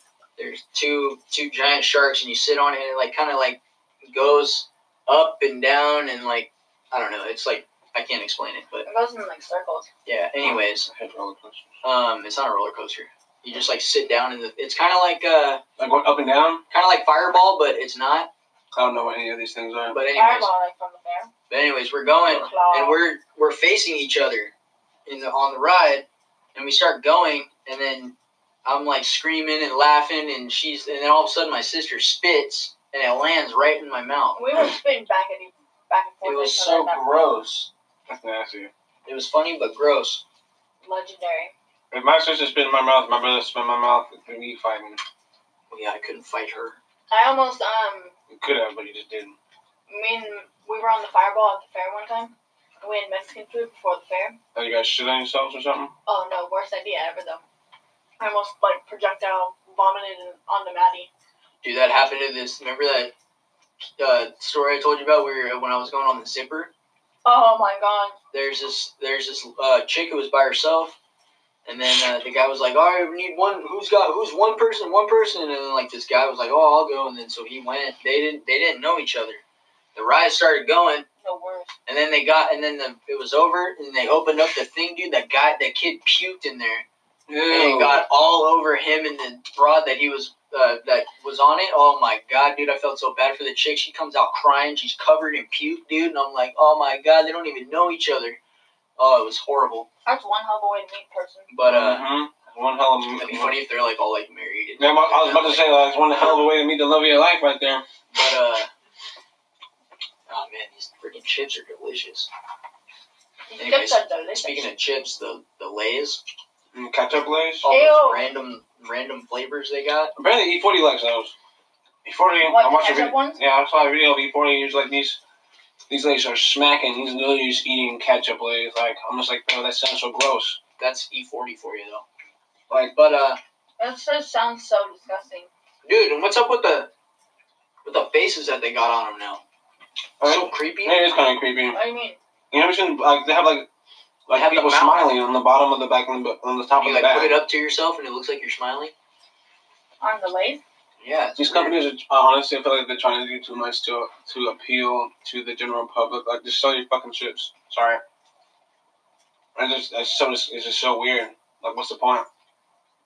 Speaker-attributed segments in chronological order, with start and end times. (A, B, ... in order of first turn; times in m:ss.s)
0:00.4-0:08.9 A
0:08.8-0:09.9 B
0:10.0-0:10.9 A
0:10.4-0:11.6 C
0:11.8-0:15.6 A
0:15.8-0:16.6 C
0:16.7-0:18.3 A
0:18.7-0:20.0 C
0:19.8-0:20.5 A
0:20.1-0:21.3 B
0:21.5-0:24.5 A
0:22.4-0:23.0 B
0:25.0-0:34.4 A
0:34.4-0:37.4 B
0:36.2-0:37.7 A
0:38.1-0:38.7 C
0:39.0-0:40.2 A
0:40.8-0:41.5 B
0:41.9-0:45.0 C
0:45.7-0:46.8 A
0:47.1-0:48.1 B
0:48.3-0:49.3 C
0:49.9-0:54.4 B
0:54.5-0:55.9 C
0:56.1-0:57.4 B
0:58.2-1:01.1 B
1:01.6-1:03.1 A
1:04.0-1:06.7 A
1:07.2-1:08.2 B
1:08.3-1:11.0 A
1:11.6-1:19.4 A
1:19.9-1:21.0 A
1:21.2-1:21.7 B
1:21.8-1:26.8 A
1:27.3-1:28.0 C
1:27.5-1:38.4 A
1:39.0-1:39.9 A
1:40.0-1:41.5 B
1:41.5-1:42.1 A
1:41.6-1:43.6 C
1:43.2-1:46.2 A
1:44.8-1:47.8 C
1:48.1-1:48.7 A
1:50.3-1:52.3 A
1:53.5-1:54.7 B
1:53.6-1:56.2 A
1:56.7-1:57.6 C
1:57.6-2:00.1 A
1:57.7-1:58.2 B
2:00.2-2:01.3 C
2:02.0-2:05.2 C
2:02.4-2:03.4 B
2:05.9-2:10.6 C
2:10.8-2:12.0 A
2:12.7-2:13.4 A
2:13.8-2:15.5 B
2:15.8-2:16.9 A
2:17.8-2:19.4 A
2:20.2-2:21.8 C
2:20.2-2:21.0 A
2:21.7-2:22.2 B
2:22.5-2:23.7 C
2:24.3-2:27.4 C
2:24.3-2:25.1 A
2:26.8-2:28.9 A
2:30.0-2:30.6 B
2:31.0-2:31.8 A
2:31.4-2:38.0 C
2:39.5-2:42.2 C